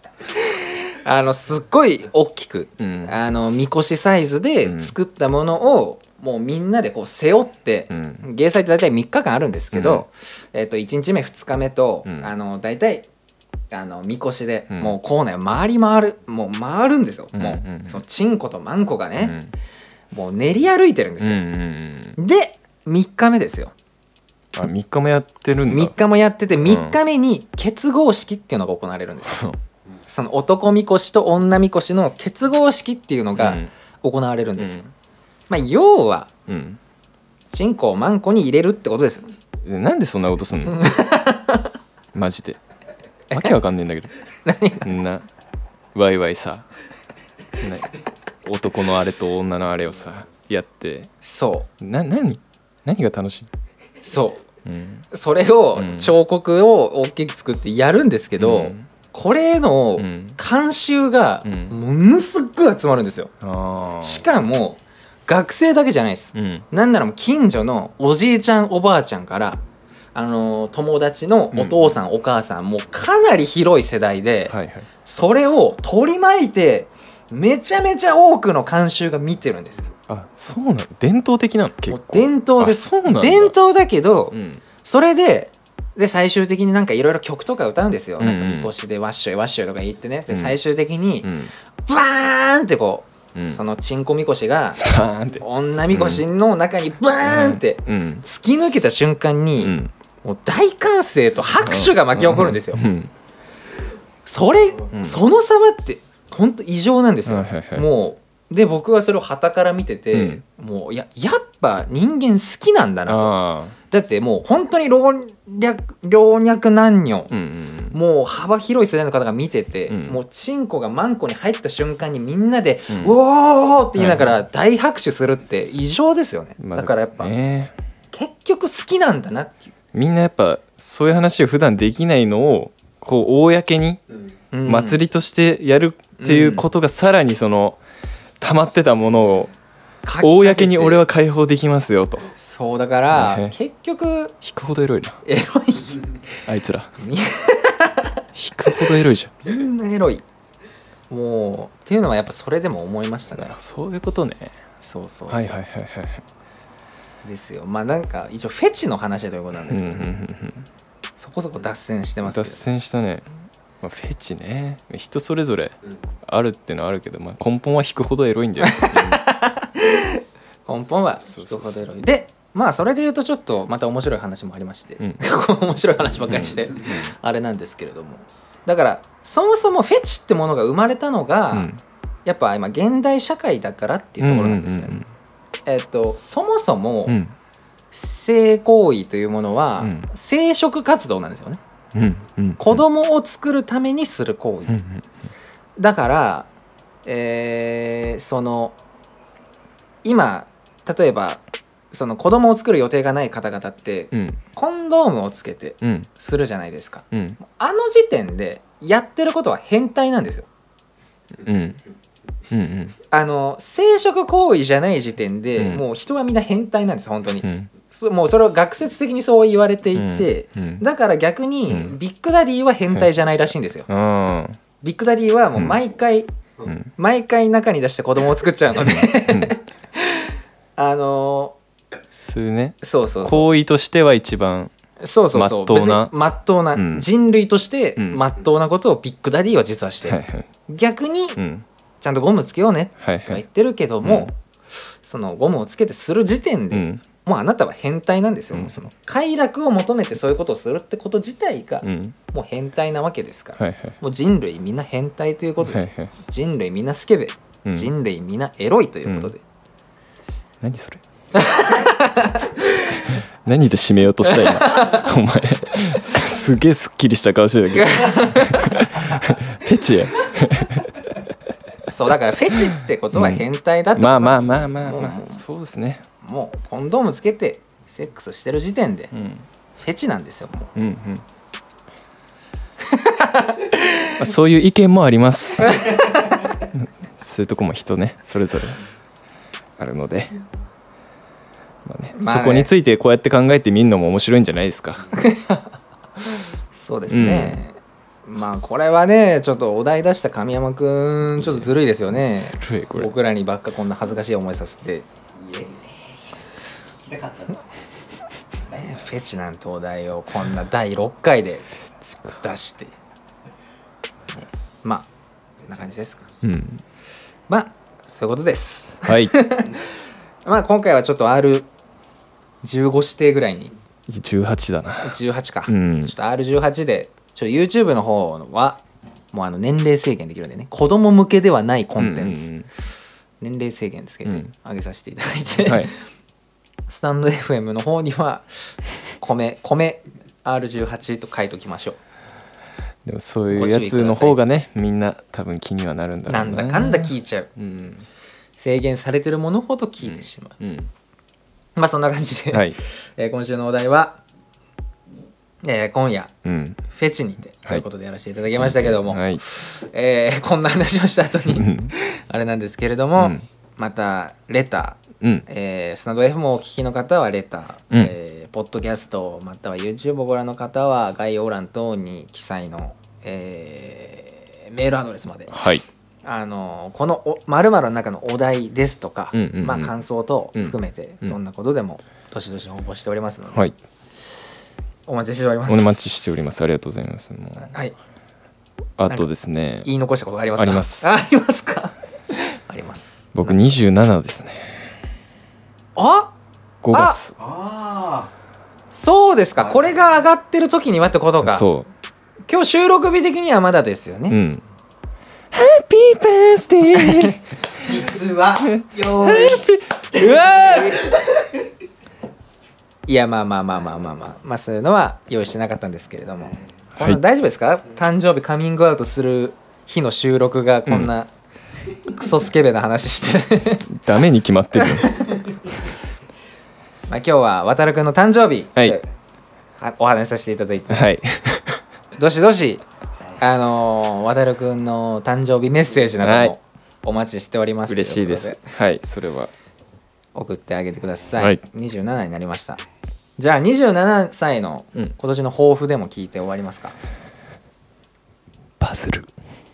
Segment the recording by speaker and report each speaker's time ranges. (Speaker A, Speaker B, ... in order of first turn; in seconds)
Speaker A: 0.4-13.1, 13.7-19.4, 20.1-21.4, 22.1-23.7, 25.7-29.5, 30.1-34.9, 35.5-36.3, 37.5-39.3, 40.7-41.6, 43.3-43.6, 44.4-44.9, 51.2-51.7, 54.0-54.5, 55.1-63.3, 64.0-69.6, 70.1-79.9, 81.9-91.3, 91.9-102.8, 104.2-113.3, 113.9-117.3, 117.9-127.3, 128.1-129.7, 134.5-135.0, 136.2-136.6, 140.0-141.0, 142.3-144.3, 145.2-146.0, 147.0-148.9, 149.4-150.2, 151.1-153.6, 154.8-155.6, 157.2-160.1, 161.2-162.6, 168.7-181.7, 182.2-185.0, 185.7-187.2, 187.9-191.6, 192.6-194.8, 195.8-196.5, 197.0-198.8, 200.0-210.5, 213.1-223.9, 224.8-226.3, 226.9-231.6, 232.8-233.5, 235.0-241.4, 242.0-244.3, 245.0-259.4, 261.3-263.1, 264.2-265.1, 267.8-268.9, 271.9-275.4, 276.2-279.1, 279.8-280.7, 282.9-284.1, 292.1-292.7, 295.1-295.6, 296.7-305.1, 308.7-311.6, 312.4-312.9, 314.4-315.1, 315.6-316.3, 317.5-319.9, 320.4-321.7, 322.6-323.7, 325.0-328.8, 329.3-332.5, 333.4-335.9, 336.9-342.0, 343.5-344.4, 346.3-347.5, 348.6-350.6, 351.8-354.2, 355.6-356.3, 356.9-375.5, 376.2-383.7, 385.1-385.9, 387.6-387.9, 389.8-393.7, 395.9-396.3, 396.9-397.2, 398.9-401.7, 402.5-404.4, 406.9-407.4, 410.6-411.0, 413.1-421.3, 422.0-423.9, 424.8-425.1, 427.1-429.1, 429.8-431.1, 432.2-432.8, 433.4-438.7, 440.3-442.8, 443.4-446.9
Speaker B: 2.8-3.1, 4.6-4.9, 7.9-8.2, 9.7-10.0, 12.1-12.3, 17.3-18.0, 19.2-19.5, 21.2-22.2, 24.5-25.9, 26.6-27.0, 29.3-29.6, 33.4-33.7, 36.5-36.8, 39.6-41.0, 42.1-42.6, 43.3-44.1, 44.8-45.3, 45.9-46.6, 47.6-51.1, 51.8-53.5, 54.6-55.0, 55.8-56.1, 58.4-58.9, 60.0-60.4, 61.4-61.7, 63.4-64.3, 66.3-66.7, 71.5-72.0, 74.5-74.9, 80.1-83.5, 84.3-84.6, 88.2-88.7, 90.3-90.5, 91.2-91.5, 93.3-93.6, 94.8-96.2, 97.2-98.2, 99.6-99.9, 101.6-103.1, 104.9-105.2, 107.2-107.9, 110.1-110.4, 113.1-113.8, 117.3-118.0, 119.9-120.2, 124.0-124.3, 126.6-127.7, 129.9-134.0, 134.7-137.8, 138.4-139.5, 140.2-142.3, 143.1-143.5, 144.4-145.2, 146.5-146.9, 148.3-149.3, 153.3-154.6, 155.3-156.2, 159.7-160.7, 162.2-163.3, 163.8-169.2, 171.3-171.7, 176.3-177.1, 181.5-181.8, 184.2-185.1, 187.1-187.3, 189.8-190.1, 191.9-192.8, 194.7-195.0, 204.1-204.4, 205.8-206.1, 207.1-207.4, 211.4-211.8, 212.5-212.9, 217.4-217.7, 219.9-220.8, 221.7-221.9, 223.9-224.6, 226.6-226.9, 228.8-229.6, 232.2-234.7, 235.3-236.1, 236.7-237.1, 238.0-238.2, 240.1-240.5, 241.4-241.6, 243.0-243.4, 244.0-244.3, 246.7-247.0, 251.8-252.2, 253.6-254.0, 255.6-256.1, 257.6-257.9, 259.1-259.3, 260.6-261.0, 262.9-271.1, 272.6-276.1, 279.1-279.4, 280.8-281.2, 284.1-286.1, 286.8-288.8, 289.8-290.4, 291.8-295.1, 297.1-297.6, 301.4-303.1, 312.0-312.4, 316.4-316.8, 319.1-319.4, 324.1-326.1, 332.0-332.7, 334.2-334.5, 335.6-335.9, 343.0-348.1, 350.1-350.9, 352.5-352.8, 356.4-356.8, 358.5-359.4, 361.5-361.9, 363.2-363.4, 365.2-365.4, 375.5-375.8, 379.3-379.9, 380.5-381.4, 385.7-387.7, 389.0-389.9, 390.6-391.1, 393.3-394.9, 396.8-397.4, 401.4-401.9, 404.3-404.6, 405.5-408.0, 408.6-411.0, 423.9-425.3, 430.9-431.8, 436.2-436.5, 437.9-439.5, 448.8-449.3
Speaker C: 305.4-305.9, 307.0-307.6, 397.4-398.3, 399.6-399.9, 407.8-410.5